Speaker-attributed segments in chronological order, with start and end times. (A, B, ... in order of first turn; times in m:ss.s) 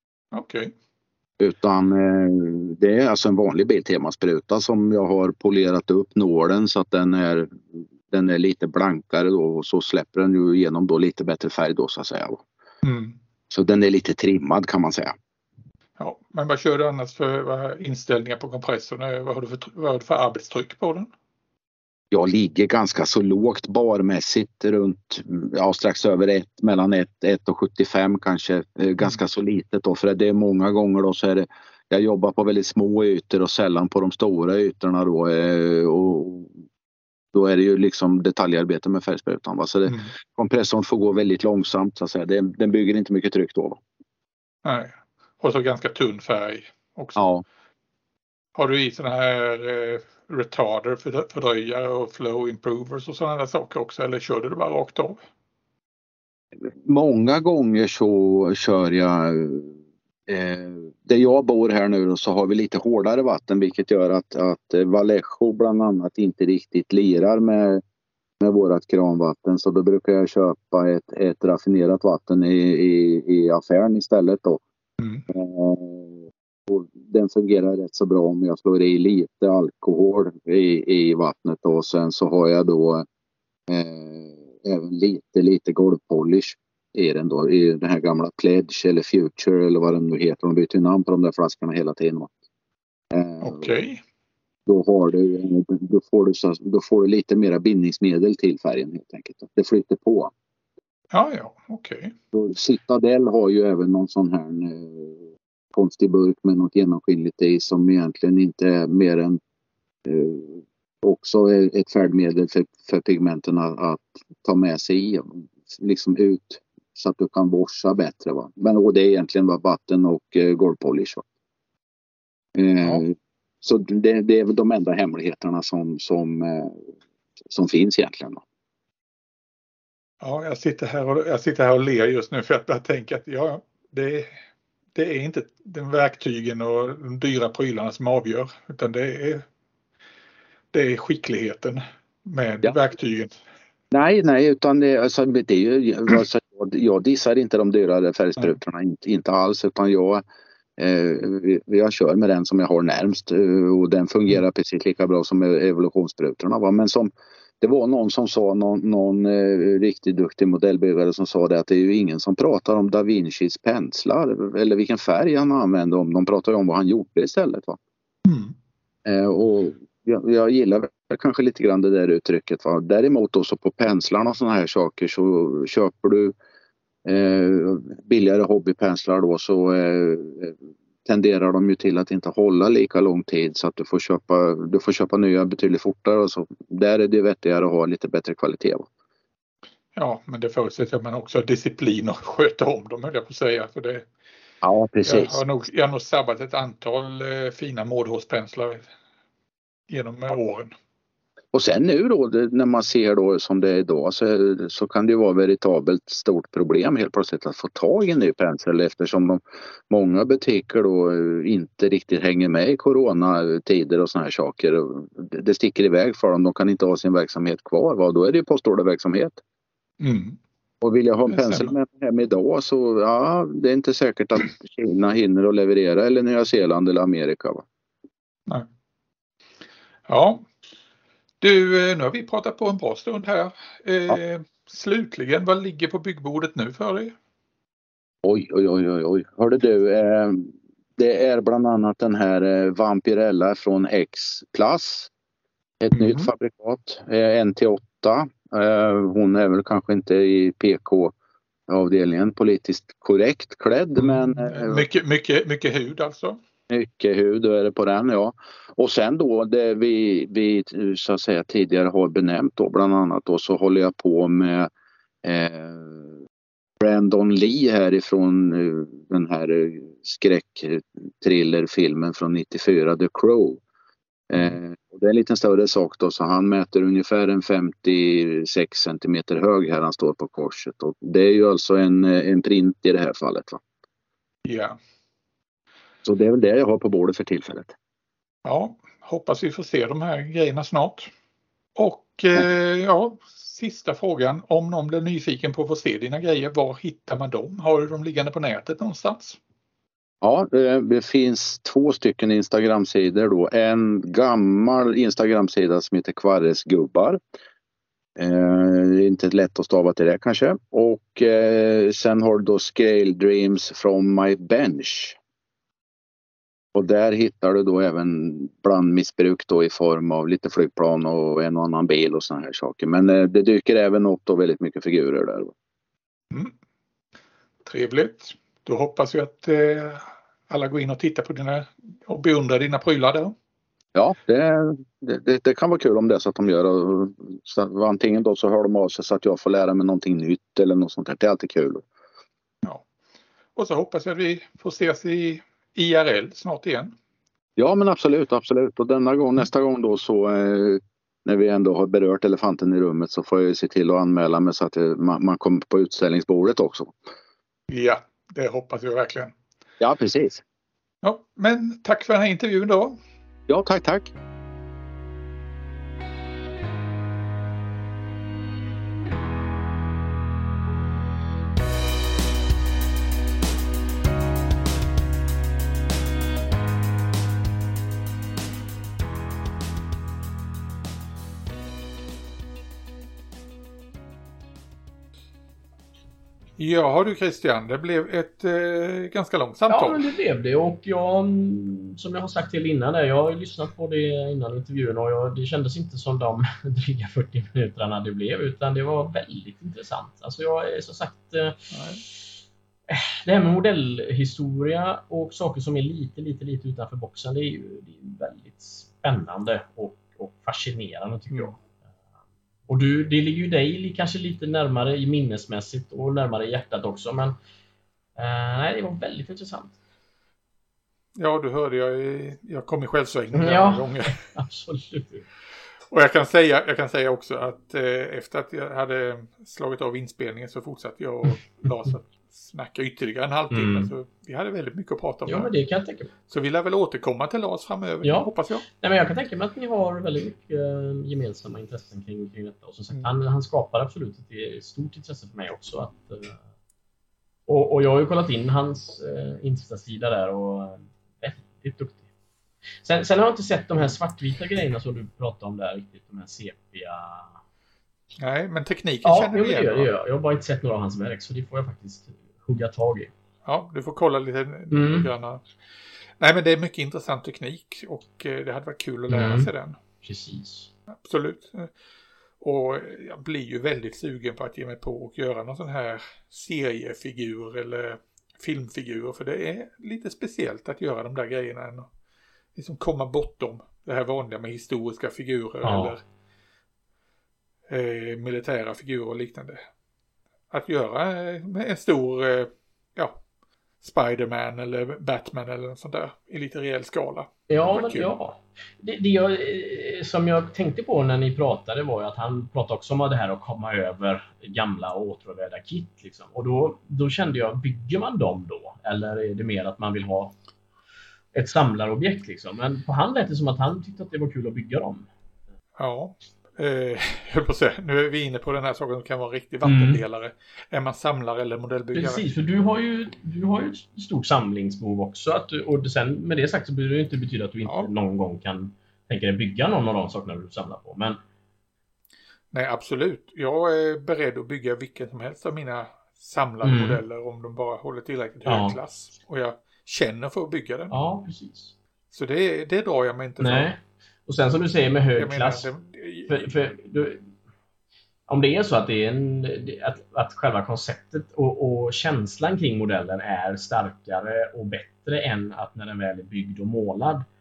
0:00.3-0:00.7 A
0:01.4-0:12.4 B
0:12.8-0:13.2 A
0:13.5-0:15.1 B
0:16.0-0:21.1 A
0:22.1-0:36.5 B
0:37.3-0:43.8 B
0:39.9-0:40.1 A
0:44.6-0:47.2 A
0:47.2-0:47.4 B
0:48.5-0:55.2 A
0:56.8-0:59.7 B
1:00.3-1:07.8 B
1:08.4-1:14.6 B
1:15.0-1:15.2 A
1:15.3-1:23.0 B
1:23.7-1:32.3 B
1:33.1-1:33.7 B
1:33.4-1:34.0 A
1:34.6-1:40.3 B
1:41.1-1:42.1 A
1:42.3-1:49.4 B
1:50.0-2:01.2 B
2:02.6-2:06.9 B
2:07.5-2:08.4 B
2:10.2-2:14.3 A
2:14.9-2:19.4 A
2:20.7-2:23.3 A
2:23.9-2:30.2 B
2:30.8-2:47.8 B
2:48.2-2:48.5 A
2:49.0-2:56.3 B
2:57.0-3:08.9 B
3:09.9-3:14.0 A
3:14.6-3:15.4 B
3:15.0-3:18.9 A
3:19.9-3:20.7 A
3:21.5-3:39.4 B
3:40.0-3:40.4 A
3:40.8-3:47.6 B
3:41.3-3:41.7 A
3:50.1-3:50.5 A
3:51.4-3:57.1 A
3:58.2-4:05.1 B
4:05.8-4:11.1 B
4:05.9-4:06.3 A
4:11.7-4:14.8 B
4:14.0-4:16.4 A
4:16.7-4:24.7 B
4:25.2-4:26.2 B
4:26.8-4:33.6 B
4:34.3-4:43.6 B
4:44.4-4:44.8 A
4:46.0-4:47.7 B
4:48.4-4:51.1 A
4:51.8-4:59.4 A
5:00.2-5:07.2 B
5:08.2-5:15.2 B
5:16.7-5:25.5 B
5:27.6-5:33.3 A
5:33.9-5:41.8 B
5:43.6-5:46.9 A
5:47.6-5:56.9 B
5:57.7-5:59.3 A
5:59.8-6:00.4 B
6:01.0-6:03.0 A
6:03.5-6:04.1 B
6:26.6-6:30.0 A
6:29.7-6:42.4 C
6:41.7-6:42.0 A
6:42.9-6:51.6 C
6:52.7-6:57.4 C
6:58.2-6:59.7 C
7:01.2-7:04.2 A
7:03.3-7:05.3 C
7:05.9-7:15.5 A
7:13.5-7:13.9 C
7:15.2-7:16.1 C
7:16.3-7:18.6 A
7:18.0-7:26.4 C
7:27.5-7:32.0 C
7:32.8-7:37.4 C
7:38.2-7:39.9 A
7:39.0-7:43.1 C
7:43.4-7:45.4 A
7:44.7-7:45.1 C
7:46.2-7:49.8 A
7:49.1-7:49.5 C
7:50.0-7:50.7 C
7:51.0-7:51.7 A
7:52.4-8:01.9 A
8:02.5-8:06.0 A
8:05.6-8:06.0 C
8:07.7-8:09.6 A
8:10.5-8:13.2 A
8:13.8-8:18.1 A
8:17.5-8:30.3 C
8:31.3-8:35.1 C
8:35.8-8:42.2 A
8:39.6-8:40.0 C
8:41.9-8:51.2 C
8:47.6-8:47.9 A
8:52.5-9:01.0 A
8:56.6-8:57.0 C
8:58.4-8:58.8 C
9:00.9-9:01.7 C
9:02.1-9:03.7 A
9:03.4-9:05.7 C
9:05.2-9:06.5 A
9:06.3-9:07.3 C
9:08.3-9:17.2 C